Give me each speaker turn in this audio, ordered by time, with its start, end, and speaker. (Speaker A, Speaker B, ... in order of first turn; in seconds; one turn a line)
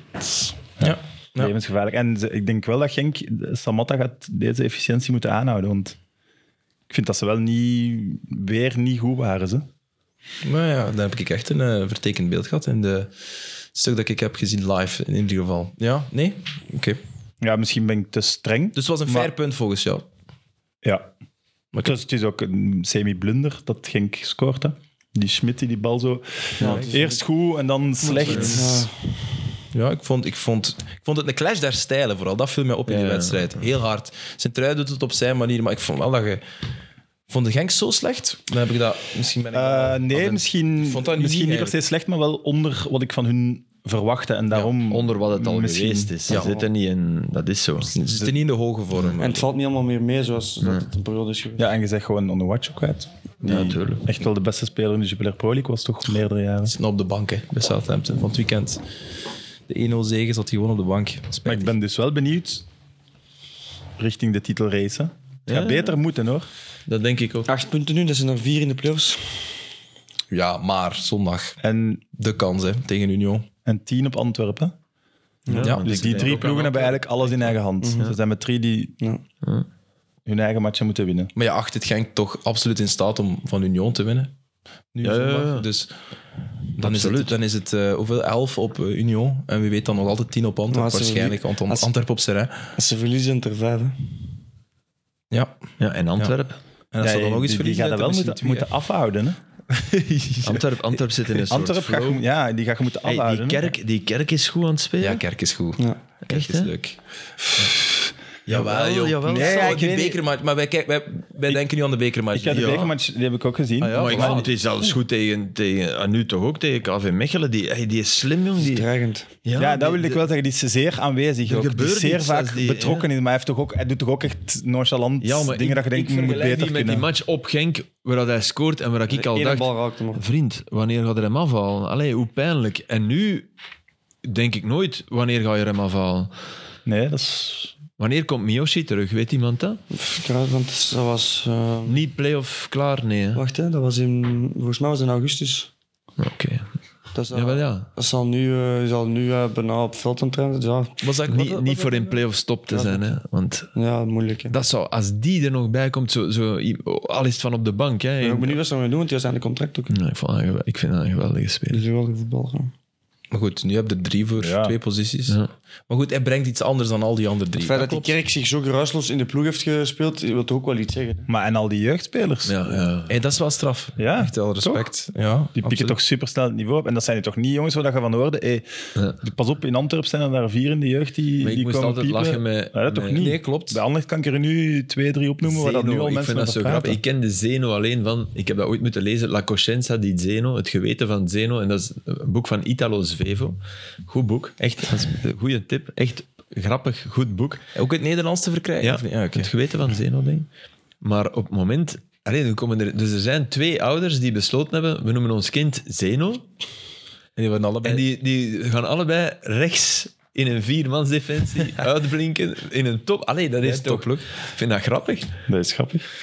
Speaker A: 0.2-6.0
Speaker B: 0.8-1.5
Speaker A: 6.9-9.7
Speaker B: 10.4-13.1
Speaker B: 13.7-17.0
Speaker A: 17.4-19.3
Speaker B: 18.7-20.1
Speaker A: 20.8-21.1
Speaker A: 21.8-28.9
Speaker C: 26.6-27.2
Speaker B: 26.6-26.9
Speaker C: 28.1-29.0
Speaker D: 28.1-28.6
Speaker B: 29.7-36.4
Speaker D: 32.9-33.6
Speaker B: 37.3-41.8
Speaker A: 39.5-46.5
Speaker D: 44.9-47.9
Speaker B: 47.9-49.5
Speaker A: 48.0-48.3
Speaker C: 49.2-51.7
Speaker D: 50.6-50.9
Speaker A: 51.6-56.7
Speaker D: 53.4-54.0
Speaker B: 56.6-58.8
Speaker B: 59.7-61.7
Speaker A: 61.4-62.6
Speaker A: 64.0-66.5
Speaker D: 65.5-66.0
Speaker D: 66.9-67.5
Speaker C: 67.5-69.6
Speaker B: 70.3-71.6
Speaker A: 71.6-72.0
Speaker B: 72.1-73.5
Speaker A: 73.6-74.8
Speaker C: 75.5-75.7
Speaker D: 75.5-77.0
Speaker B: 75.6-76.0
Speaker A: 75.8-79.0
Speaker C: 77.8-78.1
Speaker A: 80.2-81.3
Speaker B: 81.3-84.3
Speaker B: 84.9-85.9
Speaker D: 85.0-85.7
Speaker B: 86.8-92.6
Speaker D: 86.8-87.4
Speaker C: 90.7-91.9
Speaker C: 92.8-94.1
Speaker B: 95.3-95.6
Speaker D: 95.8-96.6
Speaker B: 96.9-98.7
Speaker A: 97.0-99.4
Speaker B: 99.7-100.7
Speaker D: 100.4-102.2
Speaker A: 101.5-103.7
Speaker D: 103.0-105.2
Speaker B: 105.0-107.0
Speaker D: 106.2-106.7
Speaker D: 108.5-109.8
Speaker B: 108.5-112.8
Speaker A: 109.2-110.2
Speaker A: 112.3-114.5
Speaker D: 112.5-112.9
Speaker B: 113.8-114.5
Speaker D: 114.0-118.9
Speaker C: 118.6-119.3
Speaker D: 119.4-120.2
Speaker A: 119.5-127.1
Speaker D: 121.4-123.1
Speaker D: 125.2-133.5
Speaker C: 129.1-130.2
Speaker D: 134.2-136.3
Speaker A: 136.8-137.7
Speaker D: 138.0-139.8
Speaker C: 139.9-142.0
Speaker D: 141.8-143.4
Speaker C: 143.3-145.7
Speaker D: 146.2-146.7
Speaker C: 147.1-151.0
Speaker D: 147.3-147.9
Speaker B: 151.0-152.2
Speaker D: 151.3-153.7
Speaker C: 152.7-153.1
Speaker C: 153.7-154.6
Speaker D: 154.5-158.6
Speaker C: 158.2-159.9
Speaker D: 159.9-161.8
Speaker C: 161.7-162.7
Speaker B: 163.3-168.1
Speaker A: 164.4-164.8
Speaker C: 167.6-171.3
Speaker A: 171.3-172.8
Speaker D: 172.4-173.2
Speaker B: 173.1-176.0
Speaker A: 174.0-174.9
Speaker A: 175.6-178.6
Speaker A: 179.2-187.0
Speaker D: 181.4-183.3
Speaker B: 183.2-183.8
Speaker D: 185.4-197.6
Speaker B: 197.7-199.5
Speaker D: 198.8-200.5
Speaker D: 201.0-206.4
Speaker B: 207.4-208.0
Speaker D: 207.8-215.3
Speaker B: 213.6-214.2
Speaker A: 215.5-216.1